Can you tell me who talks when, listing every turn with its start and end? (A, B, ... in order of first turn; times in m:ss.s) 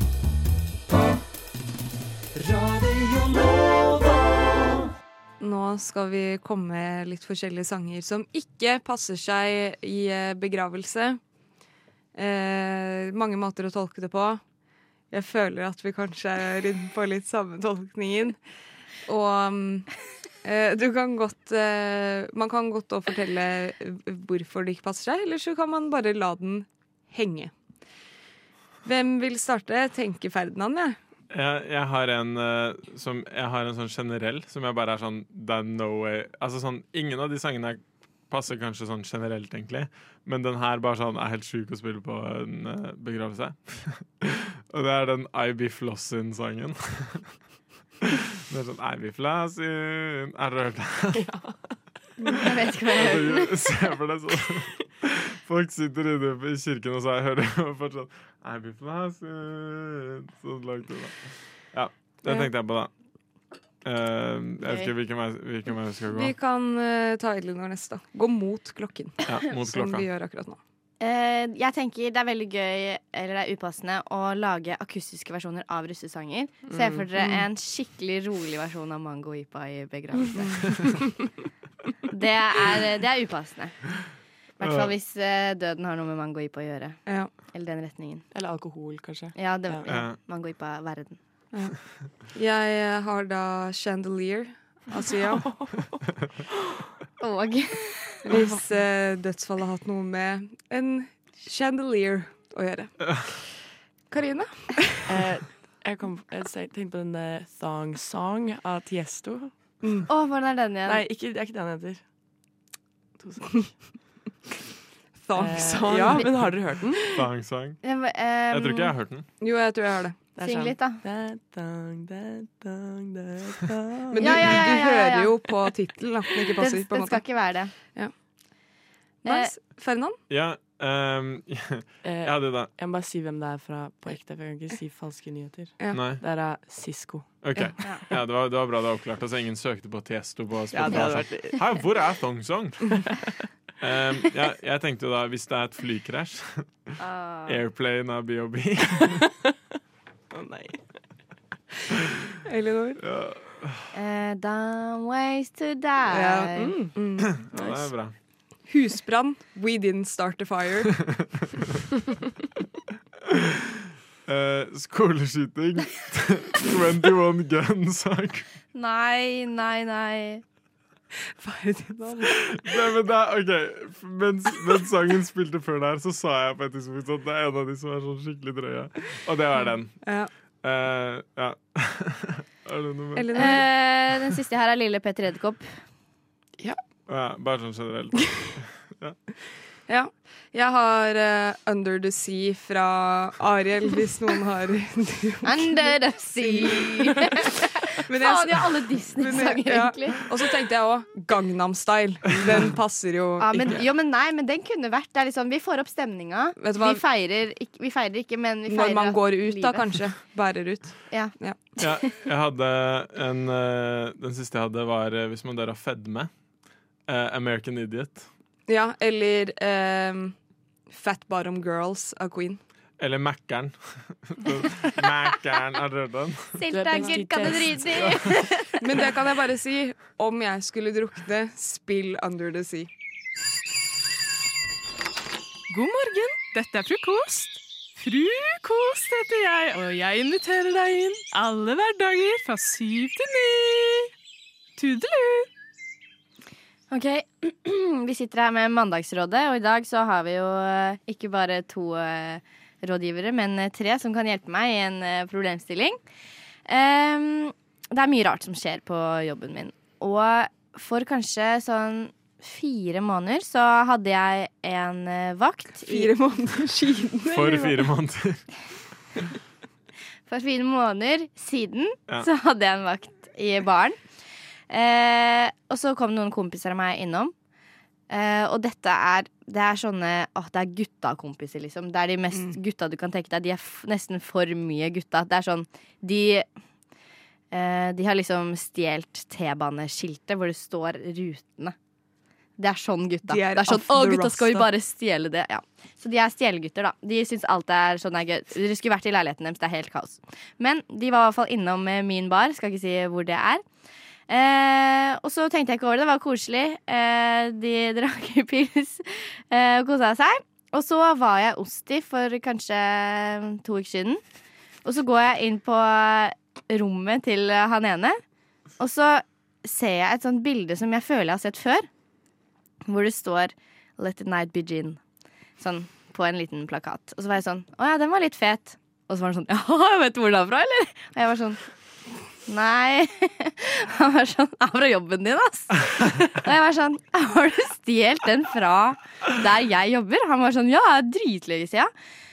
0:05.4-0:11.2 A
0:12.2-0:14.4 A
0:15.1-0:18.4 A
0:19.1-0:19.9 A
0:20.4-0:27.5 A
0:28.8-0:31.0 A
0:31.3-0:47.3 B
0:48.0-0:51.3 B
0:51.2-0:51.5 C
0:52.3-0:53.5 D
0:52.8-1:01.2 B
1:01.7-1:02.9 B
1:02.3-1:02.5 A
1:03.8-1:06.3 B
1:04.6-1:04.9 D
1:06.1-1:10.6 A
1:09.2-1:10.1 B
1:11.0-1:21.0 D
1:16.7-1:17.0 C
1:22.1-1:23.8 D
1:24.6-1:28.3 D
1:24.6-1:24.9 B
1:27.1-1:27.3 A
1:28.3-1:30.0 C
1:29.4-1:31.2 D
1:29.9-1:30.2 B
1:32.3-1:35.5 A
1:35.4-1:36.0 C
1:37.2-1:38.2 D
1:38.3-1:43.2 A
1:38.3-1:38.6 C
1:44.1-1:45.3 A
1:45.1-1:49.5 C
1:50.1-1:51.0 D
1:50.9-1:52.0 C
1:53.2-1:53.7 C
1:55.2-1:56.3 A
1:55.4-1:57.2 C
1:57.2-1:57.8 B
1:57.8-1:58.9 D
1:58.5-1:59.3 B
1:59.4-2:00.2 A
2:00.4-2:04.7 C
2:00.4-2:01.0 D
2:04.1-2:07.2 A
2:04.2-2:05.5 D
2:06.6-2:07.7 D
2:09.2-2:10.2 A
2:09.3-2:09.5 D
2:10.3-2:12.7 B
2:12.0-2:17.4 C
2:15.9-2:16.2 B
2:17.4-2:23.0 B
2:20.7-2:21.6 C
2:22.9-2:23.3 C
2:23.8-2:26.7 B
2:27.0-2:27.6 D
2:27.5-2:29.3 B
2:30.3-2:30.8 C
2:32.4-2:33.0 A
2:33.0-2:33.8 B
2:33.9-2:36.8 D
2:36.1-2:37.4 A
2:36.6-2:36.9 C
2:37.3-2:38.2 B
2:38.7-2:41.0 A
2:44.3-2:48.4 B
2:48.7-2:50.4 D
2:51.4-2:52.4 A
2:52.3-3:00.0 B
3:00.6-3:03.6 B
3:03.2-3:03.7 A
3:03.3-3:05.6 D
3:07.1-3:09.2 B
3:09.9-3:23.8 A
3:15.4-3:20.2 D
3:23.4-3:30.0 D
3:26.6-3:27.0 A
3:28.7-3:31.6 A
3:31.1-3:31.9 D
3:31.8-3:36.3 B
3:37.1-3:38.3 B
3:38.7-3:40.4 A
3:40.9-3:42.6 A
3:43.0-3:46.6 B
3:46.6-3:48.7 D
3:46.7-3:48.4 C
3:48.8-3:52.9 A
3:55.7-4:04.1 E
4:04.8-4:05.5 E
4:06.9-4:16.0 D
4:16.7-4:26.1 D
4:25.9-4:27.6 A
4:27.3-4:28.4 B
4:30.3-4:34.0 D
4:34.7-4:37.3 D
4:38.1-4:46.5 D
4:47.5-4:51.8 D
4:52.6-5:03.6 D
4:53.3-4:54.2 A
5:04.3-5:14.2 D
5:14.8-5:18.2 D
5:18.8-5:21.9 D
5:22.8-5:25.0 D
5:25.6-5:31.6 D
5:32.5-5:41.9 D